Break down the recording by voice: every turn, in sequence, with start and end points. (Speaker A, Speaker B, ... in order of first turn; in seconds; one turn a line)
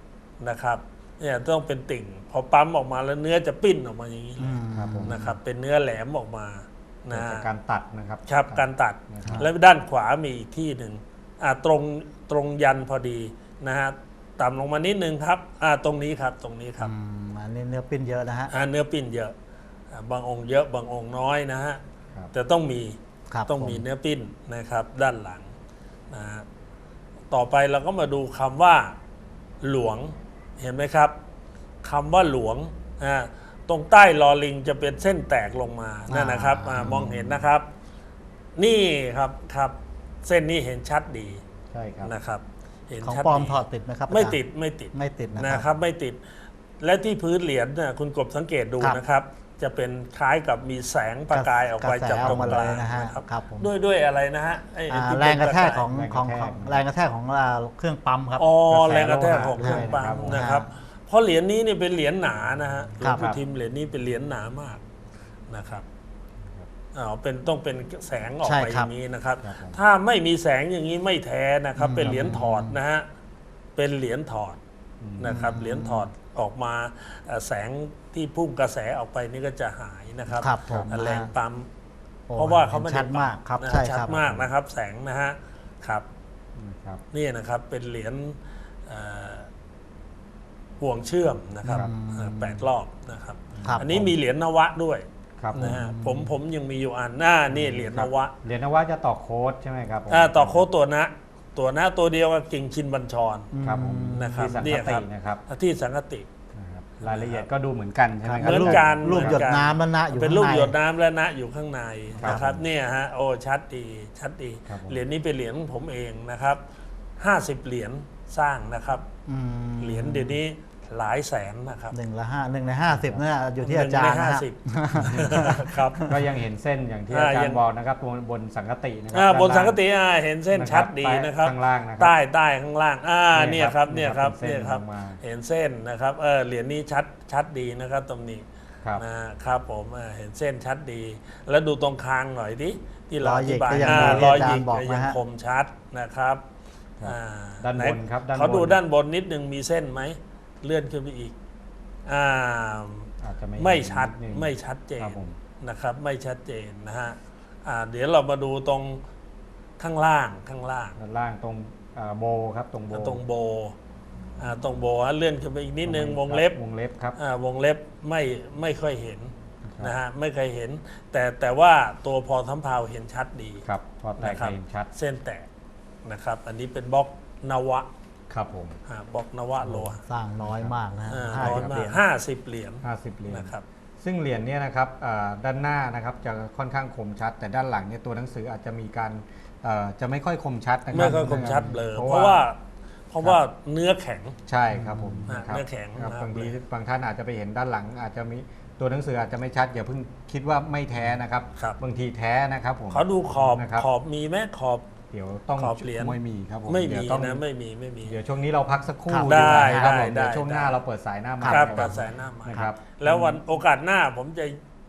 Speaker A: 0.4-7.5
Speaker B: 4.4-5.3
Speaker C: 4.8-5.3
Speaker C: 7.1-9.5
Speaker A: 8.3-16.9
Speaker B: 16.8-18.5
Speaker A: 18.5-19.4
Speaker A: 19.9-21.8
Speaker A: 22.3-25.5
Speaker B: 23.3-23.8
Speaker A: 26.1-26.5
Speaker A: 27.3-29.0
Speaker A: 29.6-31.2
Speaker A: 31.8-37.7
Speaker B: 36.1-37.2
Speaker C: 36.8-37.3
Speaker A: 38.6-41.4
Speaker C: 41.7-42.1
Speaker A: 42.0-46.2
Speaker B: 43.0-44.4
Speaker B: 44.9-45.7
Speaker A: 46.8-55.9
Speaker B: 51.3-53.7
Speaker C: 52.2-52.7
Speaker B: 54.9-58.5
Speaker C: 55.9-56.9
Speaker A: 58.4-64.8
Speaker C: 58.7-60.5
Speaker B: 59.2-60.7
Speaker B: 63.0-63.3
Speaker C: 63.0-63.4
Speaker A: 65.5-65.9
Speaker A: 66.9-73.1
Speaker B: 68.4-68.9
Speaker C: 69.4-69.8
Speaker B: 71.8-72.8
Speaker C: 72.0-72.4
Speaker A: 73.8-74.6
Speaker C: 75.0-75.5
Speaker A: 75.2-81.7
Speaker B: 75.2-76.1
Speaker B: 80.3-81.3
Speaker B: 82.3-84.3
Speaker A: 82.3-86.1
Speaker C: 86.6-87.0
Speaker A: 87.1-89.5
Speaker A: 90.8-98.3
Speaker C: 91.6-91.9
Speaker B: 91.6-92.6
Speaker C: 93.5-94.2
Speaker B: 93.6-94.0
Speaker C: 95.4-95.8
Speaker B: 95.6-96.3
Speaker C: 97.5-100.7
Speaker A: 100.1-103.5
Speaker B: 103.5-104.6
Speaker C: 103.6-105.4
Speaker A: 104.1-106.3
Speaker C: 106.5-109.5
Speaker A: 107.0-107.5
Speaker B: 108.2-110.8
Speaker A: 108.4-116.6
Speaker C: 112.2-112.6
Speaker B: 112.2-112.6
Speaker C: 114.7-115.0
Speaker A: 117.2-119.1
Speaker B: 119.3-120.4
Speaker A: 119.8-122.0
Speaker B: 121.9-125.7
Speaker C: 122.9-123.2
Speaker A: 123.6-126.1
Speaker C: 125.0-129.8
Speaker A: 127.1-127.6
Speaker A: 129.1-146.4
Speaker C: 130.5-132.2
Speaker C: 133.3-135.2
Speaker B: 143.2-145.2
Speaker C: 143.7-144.5
Speaker C: 147.0-148.8
Speaker A: 147.0-151.3
Speaker A: 152.1-159.0
Speaker C: 153.2-155.4
Speaker A: 159.8-161.0
Speaker C: 161.0-163.2
Speaker A: 162.9-163.8
Speaker A: 164.4-166.6
Speaker C: 165.8-167.2
Speaker A: 167.2-173.7
Speaker C: 169.7-170.0
Speaker C: 173.6-174.9
Speaker A: 174.2-175.5
Speaker A: 176.0-177.9
Speaker C: 178.3-178.8
Speaker A: 178.9-180.0
Speaker C: 179.6-180.8
Speaker B: 180.0-182.0
Speaker A: 181.1-183.7
Speaker C: 181.3-181.8
Speaker C: 182.8-192.4
Speaker A: 190.9-192.6
Speaker A: 193.1-194.4
Speaker C: 194.5-203.9
Speaker B: 194.7-195.4
Speaker A: 195.3-196.6
Speaker A: 202.9-204.9
Speaker C: 205.1-207.4
Speaker A: 205.6-208.2
Speaker C: 208.0-213.4
Speaker B: 209.1-210.0
Speaker A: 209.2-210.8
Speaker B: 211.4-212.0
Speaker A: 211.5-214.6